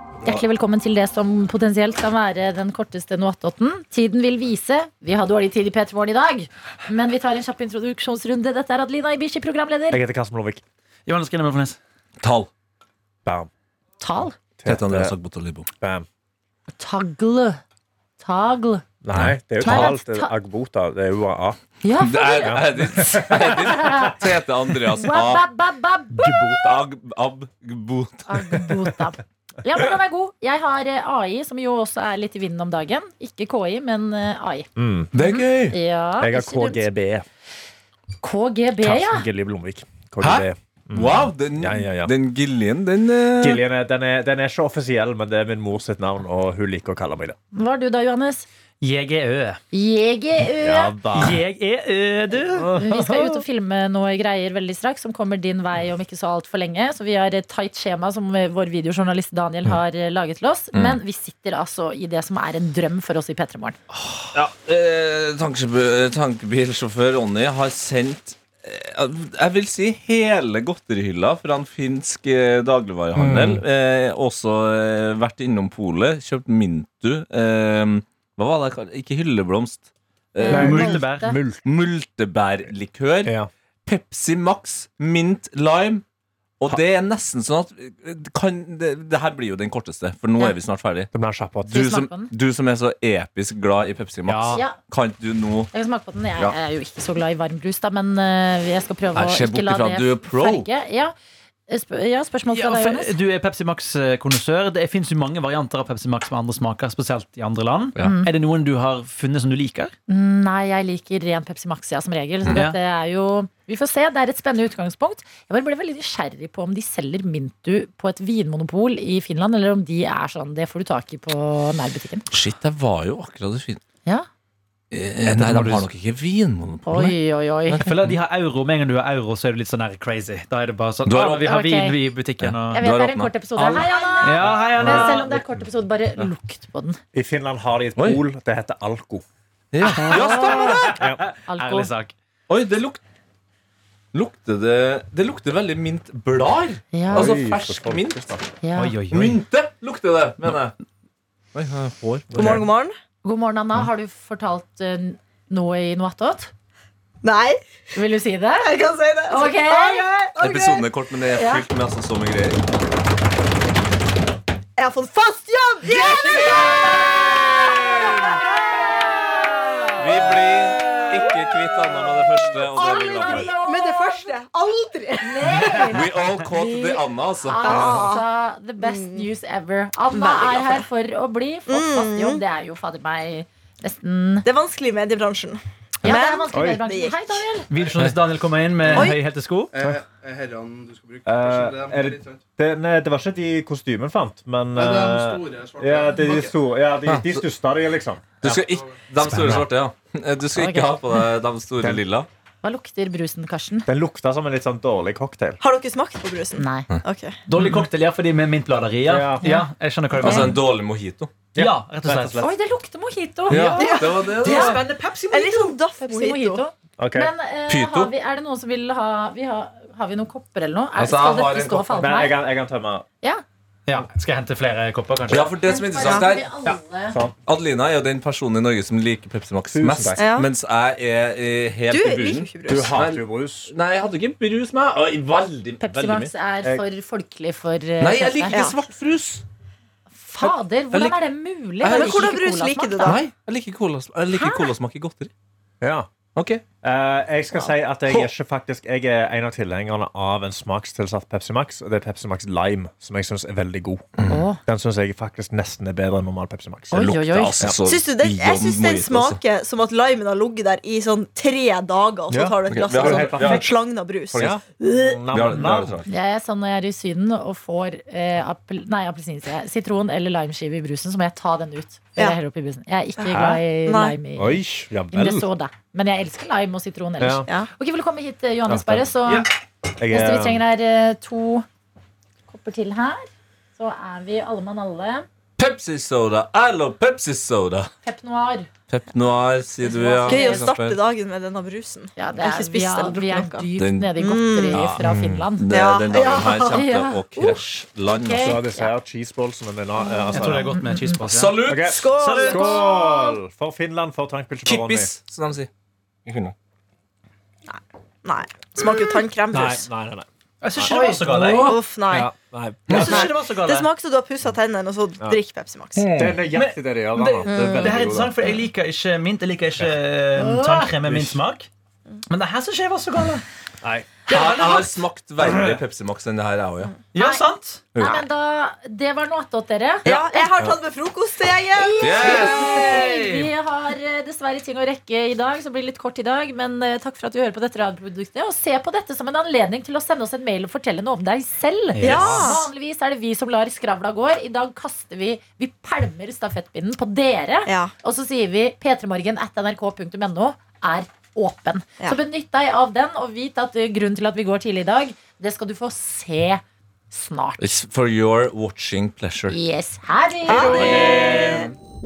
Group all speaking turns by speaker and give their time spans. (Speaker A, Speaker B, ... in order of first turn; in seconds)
Speaker A: 0.2-10.0, 14.0-14.4, 16.8-17.6, 18.2-18.8, 19.6-20.3, 21.8-24.2, 24.9-26.4, 28.3-36.9, 38.2-39.2, 47.5-48.5, 49.7-50.9, 52.7-63.8, 80.4-81.4, 91.7-92.3, 95.7-101.1, 101.7-103.2, 108.0-108.3, 110.1-122.3, 126.8-127.9, 131.4-132.0, 132.7-137.0, 140.0-140.9, 141.5-141.9, 146.9-147.4, 148.6-149.0, 153.2-156.5, 157.9-160.1, 161.3-161.6, 172.7-173.6, 175.2-184.4, 186.0-187.7, 200.5-201.2, 202.6-203.9, 206.5-206.9, 209.4-209.7, 210.2-210.6, 212.4-214.8, 216.0-222.4, 225.6-227.2, 235.8-238.6, 240.1-243.2, 254.3-254.6, 256.9-257.7, 266.1-279.5, 280.1-281.6, 282.5-285.2, 288.0-288.7, 289.8-290.7, 292.2-295.7, 296.6-298.9, 300.7-301.2, 310.9-311.1, 320.5-320.8, 327.1-327.4, 328.0-330.5, 331.7-357.7, 359.5-361.6
Speaker B: 9.9-10.6, 13.2-13.5, 14.6-15.1, 15.8-16.1, 19.0-21.6, 22.4-23.6, 26.2-26.4, 34.8-35.1, 36.2-37.2, 38.8-42.1, 43.4-47.4, 50.6-51.4, 52.6-53.4, 73.1-73.6, 80.5-81.6, 91.1-91.8, 134.4-135.7, 137.1-139.2, 140.8-141.2, 147.1-148.4, 186.1-186.8, 191.2-198.6, 203.9-205.6, 209.1-209.6, 211.5-212.5, 217.0-217.3, 221.9-223.0, 227.1-227.3, 229.7-230.2, 232.7-233.7, 245.8-246.1, 246.8-257.8, 262.3-263.7, 264.3-266.0, 273.3-273.6, 274.3-275.5, 277.2-277.4, 278.7-279.0, 280.0-280.6, 298.4-300.8, 301.6-305.1, 309.5-310.9, 312.1-313.2, 316.1-318.4, 321.0-321.4, 323.8-324.1, 325.4-325.8
Speaker C: 11.1-11.8, 48.8-49.6, 51.1-52.7, 80.5-81.3, 94.2-94.6, 102.5-109.9, 112.5-112.8, 125.2-125.9, 127.8-132.9, 133.6-135.3, 139.9-142.1, 148.8-149.4, 187.7-189.7, 207.5-210.6, 211.6-212.4, 213.5-215.8, 223.9-225.6, 300.3-302.9, 310.6-312.2, 312.9-313.9, 316.4-321.7, 322.3-323.4, 324.3-324.9, 327.1-327.9, 332.4-333.5, 341.9-342.5, 360.8-361.5
Speaker D: 12.2-12.5, 14.7-15.7, 22.0-25.4, 26.4-28.3, 35.1-35.8, 40.2-43.6, 60.7-61.0, 64.3-80.7, 81.6-83.3, 83.8-86.0, 86.6-91.1, 91.7-95.7, 99.1-100.7, 122.3-123.8, 124.9-127.1, 127.7-128.1, 131.0-131.5, 132.4-133.3, 138.0-138.2, 139.7-140.9, 142.5-143.0, 144.1-148.3, 149.1-150.7, 151.5-152.6, 160.4-162.6, 170.0-173.5, 175.9-178.0, 197.0-197.4, 198.4-202.3, 210.2-211.3, 213.5-214.8, 217.7-218.1, 221.0-222.0, 225.3-226.4, 227.4-236.3, 238.0-239.4, 240.4-241.2, 241.8-242.2, 243.0-245.3, 246.3-246.6, 256.9-259.4, 262.7-263.7, 265.3-266.1, 285.6-287.9, 288.9-291.0, 293.8-294.1, 294.7-298.6, 301.3-302.0, 304.6-305.7, 306.2-306.5, 311.2-311.8, 315.9-316.4, 324.3-327.0, 327.9-328.3, 332.0-333.0, 357.6-359.6
Speaker E: 152.3-152.9, 157.2-157.6, 158.6-160.9, 164.8-167.0, 173.3-175.9, 177.6-178.2, 178.8-179.3, 180.1-180.8, 181.7-182.4, 184.4-187.4, 188.9-189.2, 205.6-207.4, 213.6-216.6, 225.9-226.4, 230.2-230.5, 231.9-232.9, 238.5-238.8, 241.8-243.2, 244.3-244.7, 257.8-264.5, 273.9-274.1, 290.2-294.9, 295.7-296.9, 301.9-303.4, 307.7-309.9, 310.9-312.3, 312.9-316.1, 317.4-318.1, 330.0-332.7, 342.0-342.7, 347.6-347.9, 360.4-361.6
Speaker F: 188.8-189.1, 189.7-192.4, 194.8-196.5